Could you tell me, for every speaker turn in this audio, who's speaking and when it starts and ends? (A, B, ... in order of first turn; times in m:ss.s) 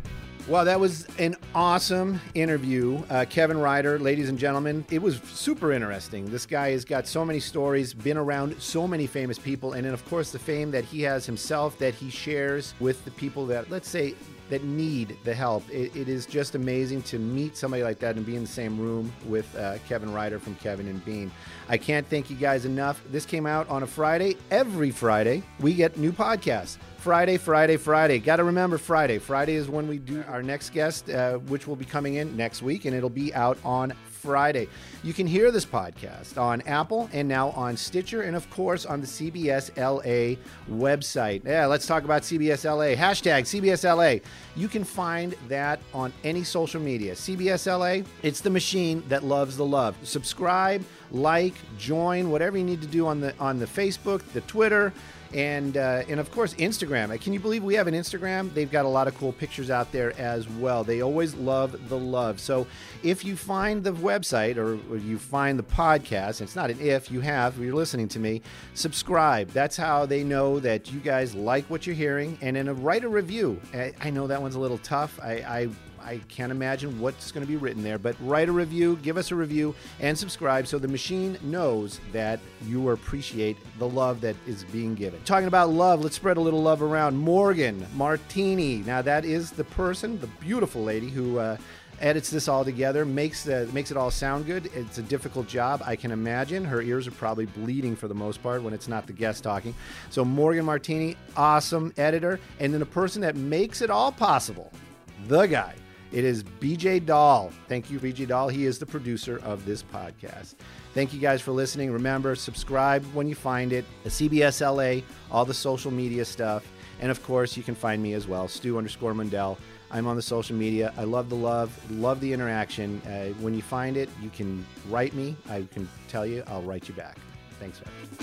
0:00.4-2:08.0 A